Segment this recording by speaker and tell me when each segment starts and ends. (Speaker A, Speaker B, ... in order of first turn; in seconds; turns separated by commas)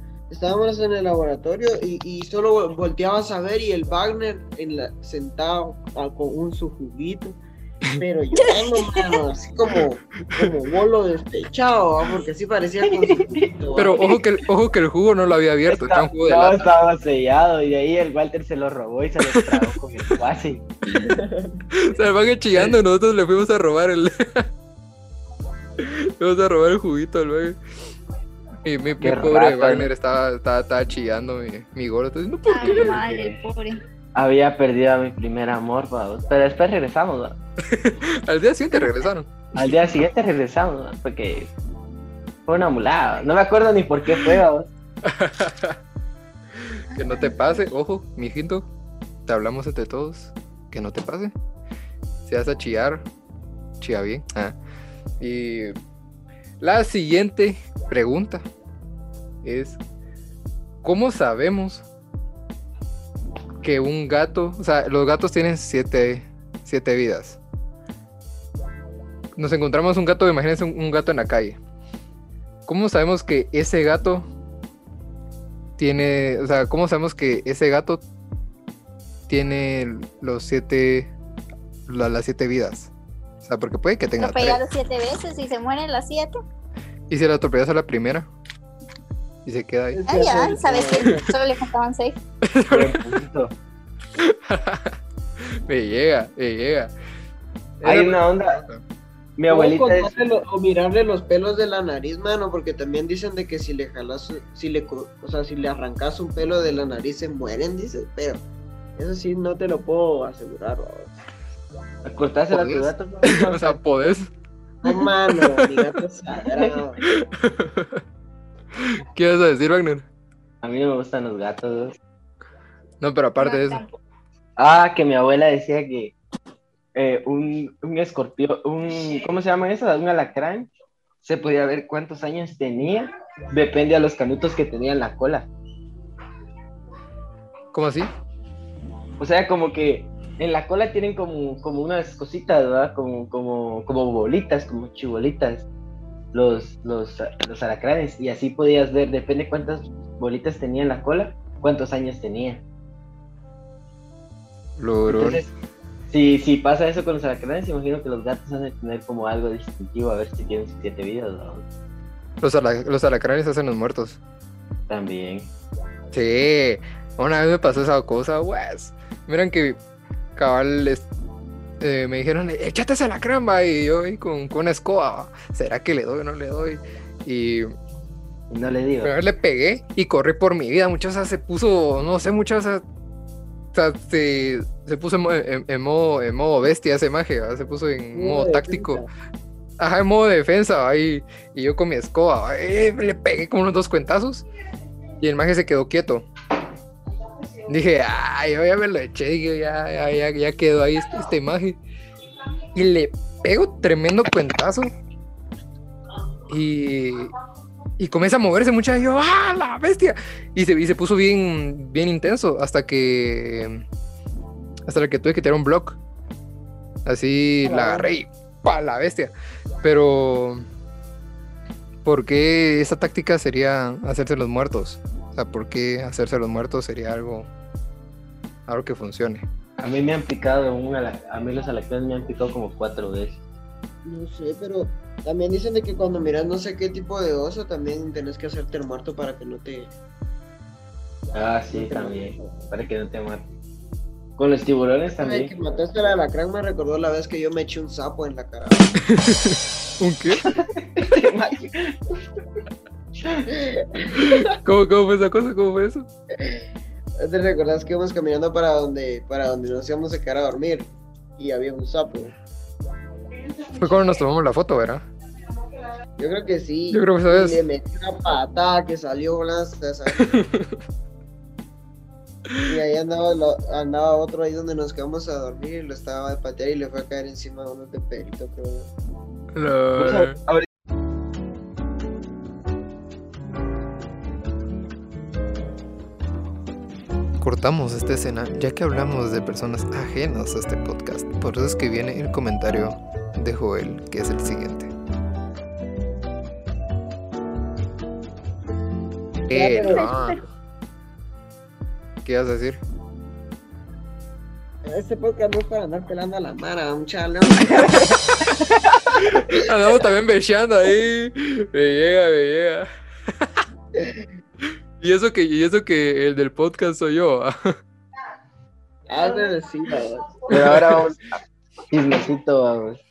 Speaker A: 0.3-7.4, Speaker A: 8.0-14.1, Speaker B: 8.4-9.2, Speaker C: 13.0-13.4, Speaker D: 13.8-16.7, Speaker C: 15.7-20.7, Speaker D: 19.3-19.8, Speaker D: 20.9-21.1, Speaker A: 21.1-21.6, Speaker D: 21.7-24.5, Speaker D: 25.8-27.6, Speaker D: 28.6-33.0, Speaker C: 29.0-29.9, Speaker B: 32.5-33.8, Speaker C: 32.6-33.4, Speaker C: 34.1-37.4, Speaker D: 37.7-39.7, Speaker C: 39.5-41.5, Speaker C: 42.5-44.7, Speaker D: 45.0-45.8, Speaker D: 46.6-48.7, Speaker D: 49.3-51.3, Speaker D: 52.3-53.1, Speaker D: 53.8-54.6, Speaker D: 55.2-55.8, Speaker D: 56.6-58.5, Speaker D: 59.4-59.8, Speaker D: 60.8-61.9, Speaker D: 63.6-67.4, Speaker D: 69.4-71.6, Speaker D: 72.7-74.3, Speaker D: 75.8-78.0, Speaker D: 79.3-81.1, Speaker D: 81.9-82.9, Speaker D: 83.4-84.6, Speaker B: 84.2-86.4, Speaker D: 87.1-88.3, Speaker D: 89.5-90.0, Speaker A: 89.9-91.2, Speaker B: 90.1-92.2, Speaker D: 92.5-93.0, Speaker C: 92.7-93.5, Speaker D: 94.2-95.0, Speaker D: 95.7-96.9, Speaker D: 97.8-98.8, Speaker C: 97.8-98.6, Speaker C: 99.4-100.2, Speaker A: 99.5-108.4, Speaker A: 109.0-111.2, Speaker C: 112.0-113.8, Speaker D: 112.5-114.3, Speaker A: 114.8-117.0, Speaker D: 115.4-115.9, Speaker D: 117.1-118.0, Speaker D: 118.7-120.0, Speaker C: 120.6-122.0, Speaker D: 123.0-123.8, Speaker B: 123.4-124.0, Speaker C: 124.6-126.2, Speaker C: 127.0-130.7, Speaker C: 131.2-135.5, Speaker D: 137.7-138.1, Speaker C: 139.2-145.7, Speaker C: 146.3-152.6, Speaker D: 154.8-155.4, Speaker C: 155.1-155.5, Speaker C: 156.1-161.7, Speaker D: 162.4-164.2, Speaker C: 164.9-165.5, Speaker D: 166.1-169.8, Speaker D: 170.4-171.1, Speaker D: 171.8-177.7, Speaker C: 178.5-179.1, Speaker D: 179.0-182.8, Speaker D: 183.7-189.0, Speaker A: 188.1-189.1, Speaker D: 189.8-194.4, Speaker D: 195.2-196.3, Speaker D: 197.7-201.8, Speaker D: 202.7-204.9, Speaker D: 206.5-207.3, Speaker D: 208.0-213.8, Speaker D: 214.9-216.0, Speaker D: 217.1-219.3, Speaker A: 217.6-218.1, Speaker D: 219.8-220.6, Speaker D: 222.1-227.5, Speaker D: 228.7-229.4, Speaker C: 229.8-233.4, Speaker A: 234.1-239.9, Speaker C: 241.3-243.5, Speaker A: 241.7-242.7, Speaker C: 244.4-245.5, Speaker A: 245.2-249.0, Speaker D: 249.1-250.5, Speaker C: 250.4-252.2, Speaker A: 253.5-254.5, Speaker D: 254.2-256.1, Speaker A: 257.2-262.4, Speaker D: 263.8-265.1, Speaker A: 266.2-270.4, Speaker D: 266.9-267.6, Speaker D: 270.3-270.7, Speaker A: 272.7-278.9, Speaker D: 279.5-280.4, Speaker C: 280.0-280.7, Speaker D: 287.4-294.9, Speaker D: 299.5-300.4, Speaker A: 299.5-300.4, Speaker D: 302.2-302.8, Speaker A: 304.9-308.0, Speaker C: 307.5-309.2, Speaker A: 309.3-310.0, Speaker D: 309.4-313.6, Speaker A: 314.0-314.2, Speaker D: 315.0-317.8, Speaker A: 319.1-320.8, Speaker C: 320.5-323.0, Speaker D: 320.6-320.9